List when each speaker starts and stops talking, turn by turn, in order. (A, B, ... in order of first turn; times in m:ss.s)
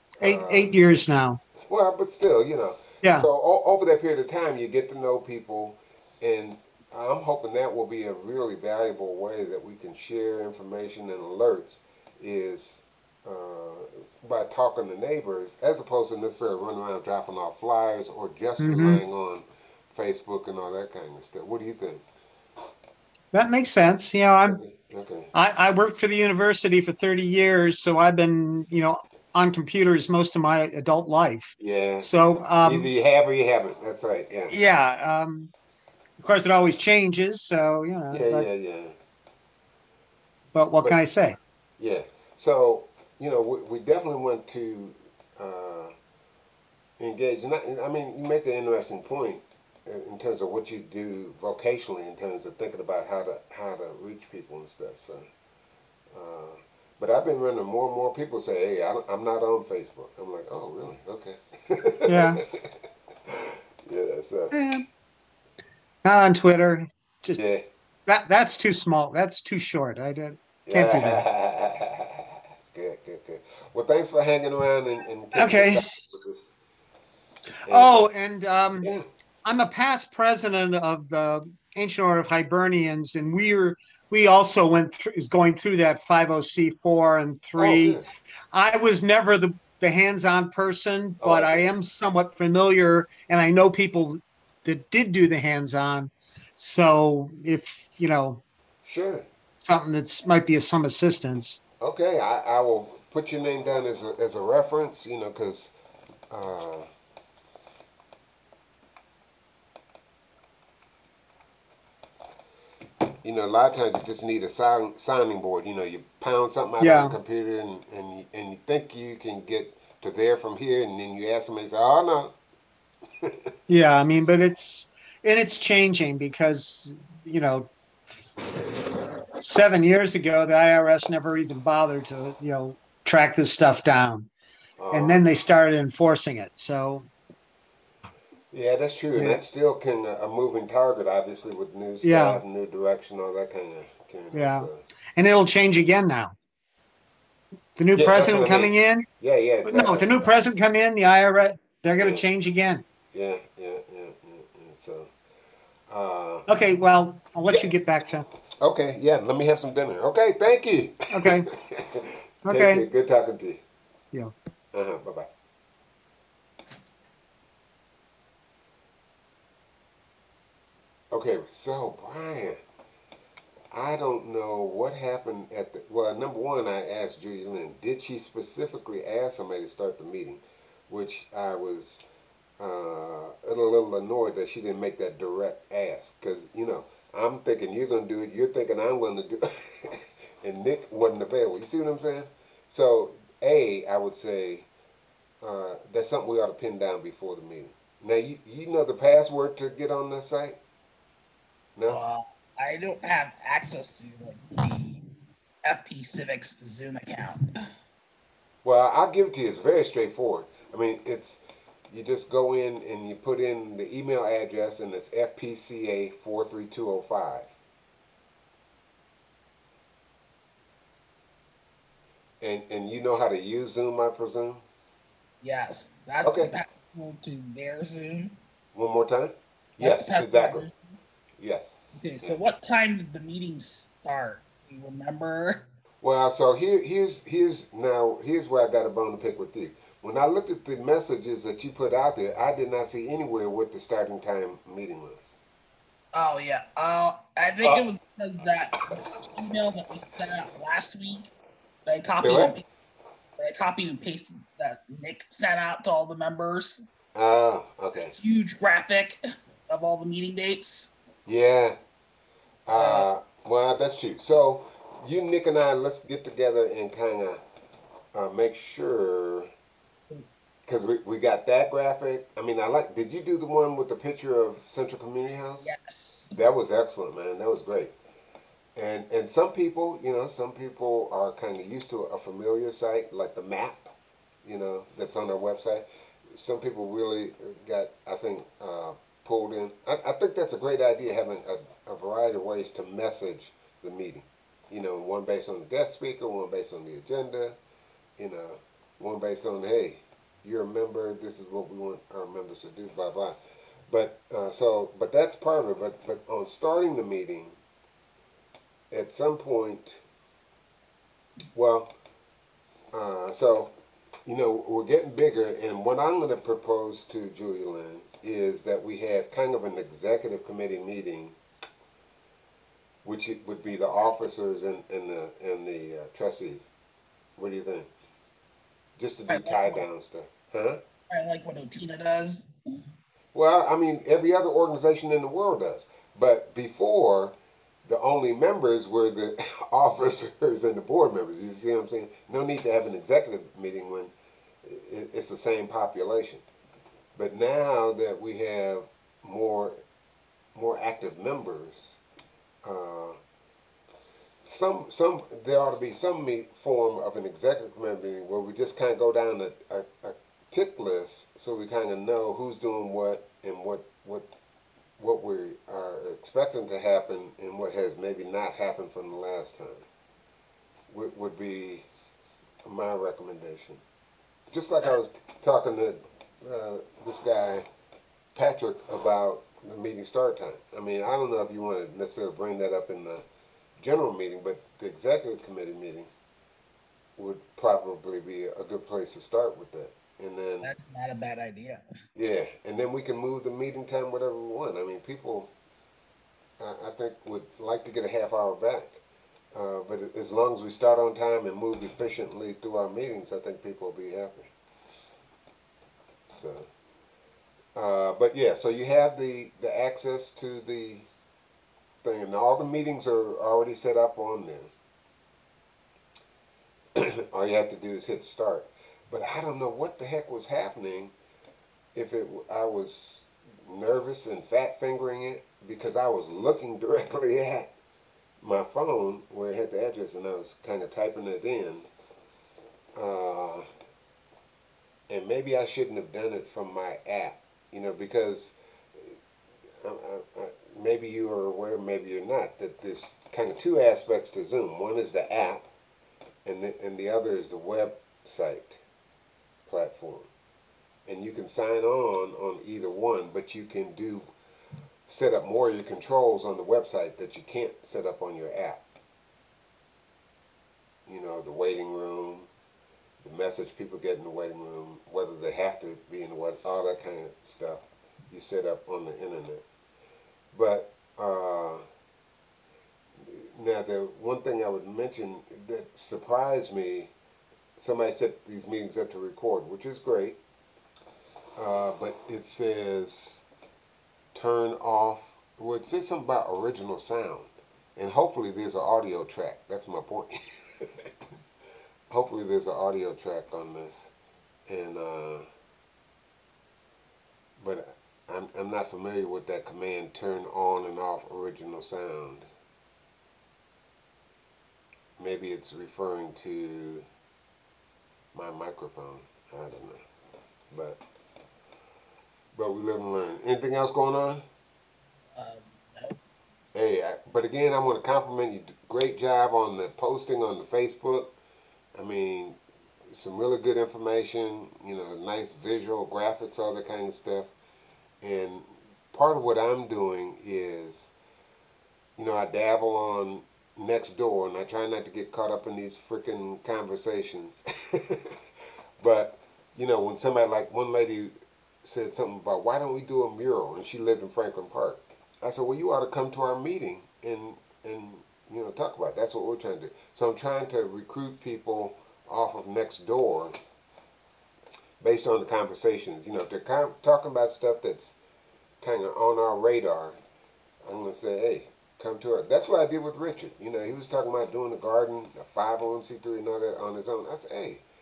0:00.2-0:00.8 A
0:00.2-0:01.4 B
0:01.7-0:22.0 A
0:03.0-0:03.3 B
0:18.6-0:19.0 B
0:23.3-0:24.6 B
0:24.5-0:25.3 A
0:25.3-0:32.9 B
0:31.6-0:34.6 A
0:34.5-0:35.5 B
0:36.2-0:38.5 B
0:38.1-0:39.0 A
0:40.6-0:41.4 B
0:41.8-0:46.0 A
0:47.0-0:55.3 A
0:56.1-1:02.7 A
1:02.1-1:02.4 B
1:03.3-1:04.5 A
1:04.5-1:04.9 B
1:06.0-1:07.4 B
1:07.4-1:07.7 A
1:08.1-1:11.2 B
1:10.6-1:16.5 A
1:15.3-1:15.8 B
1:17.7-1:18.1 A
1:17.7-1:18.9 B
1:18.8-1:19.1 A
1:19.4-1:28.0 B
1:27.6-1:28.0 A
1:28.5-1:38.4 B
1:31.2-1:31.7 A
1:38.8-1:39.3 A
1:39.6-1:41.6 B
1:41.8-1:45.7 A
1:46.3-1:46.9 A
1:53.2-2:02.4 A
1:56.8-1:57.1 B
2:03.7-2:07.7 B
2:09.4-2:14.3 B
2:14.8-2:15.2 A
2:14.9-2:17.1 B
2:18.5-2:24.8 A
2:22.0-2:22.4 B
2:24.3-2:26.4 B
2:27.8-2:29.1 B
2:28.0-2:30.4 A
2:29.6-2:32.8 B
2:32.0-2:32.3 A
2:33.1-2:35.1 A
2:35.9-2:36.5 A
2:36.5-2:38.3 B
2:37.5-2:37.8 A
2:38.6-2:43.6 A
2:41.1-2:41.5 B
2:42.5-2:42.8 B
2:44.7-2:45.3 A
2:51.1-2:52.6 A
2:53.7-3:02.0 A
3:02.6-3:14.7 A
3:15.4-3:20.6 A
3:21.8-3:22.0 A
3:21.9-3:25.1 C
3:25.6-3:27.4 C
3:28.6-3:37.5 A
3:42.4-3:44.6 A
3:45.4-3:48.3 C
3:46.2-3:46.5 A
3:48.7-3:50.7 A
3:49.8-3:50.8 C
3:51.4-3:52.4 A
3:52.0-3:55.7 C
3:56.0-4:05.3 A
4:06.1-4:11.3 C
4:11.9-4:12.6 C
4:12.2-4:12.6 A
4:13.4-4:16.8 C
4:17.1-4:18.1 A
4:18.1-4:20.9 C
4:21.3-4:21.8 A
4:22.7-4:27.4 A
4:22.7-4:23.1 C
4:28.1-4:29.5 A
4:30.7-4:35.7 A
4:35.6-4:36.3 C
4:36.3-4:37.9 A
4:38.8-4:43.9 A
4:44.4-4:57.6 A
4:58.2-5:03.4 A
5:03.9-5:07.6 A
5:08.9-5:10.0 A
5:11.5-5:12.0 A
5:12.9-5:13.7 A
5:14.3-5:21.4 A
5:23.0-5:26.7 A
5:27.4-5:27.9 A
5:29.0-5:30.8 A
5:29.3-5:29.8 C
5:31.1-5:32.5 C
5:33.3-5:44.1 A
5:44.6-5:46.5 A
5:47.2-5:49.8 A
5:50.6-5:52.0 A
5:52.6-5:53.2 A
5:54.4-6:04.3 A
6:05.0-6:09.8 A
6:10.9-6:11.9 A
6:12.6-6:13.8 A
6:14.5-6:17.7 A
6:18.4-6:23.3 A
6:23.8-6:26.1 A
6:27.2-6:30.7 A
6:30.6-6:31.8 C
6:32.2-6:35.5 A
6:36.6-6:39.0 A
6:39.5-6:44.5 A
6:46.3-6:46.7 A
6:47.8-6:51.1 A
6:52.0-6:54.7 A
6:57.0-7:01.1 A
7:01.9-7:07.8 A
7:08.4-7:11.9 A
7:13.0-7:13.7 A
7:15.1-7:19.2 A
7:19.8-7:25.7 A
7:26.4-7:28.8 A
7:29.7-7:30.3 A
7:31.1-7:34.3 A
7:35.1-7:38.8 A
7:41.1-7:42.5 A
7:43.2-7:49.6 A
7:50.5-7:51.8 A
7:53.2-7:57.1 A
7:57.8-8:00.4 A
8:01.6-8:03.4 A
8:04.3-8:11.2 A
8:12.1-8:14.1 A
8:14.7-8:15.5 A
8:17.6-8:22.5 A
8:25.2-8:27.1 A
8:28.3-8:30.0 A
8:30.7-8:31.0 A
8:32.5-8:34.4 A
8:35.4-8:36.2 C
8:36.7-8:41.3 A
8:41.9-8:47.5 A
8:48.2-8:51.1 A
8:52.2-8:58.3 A
8:59.0-9:13.6 A
9:15.0-9:18.2 A
9:18.8-9:20.2 A
9:20.8-9:27.8 A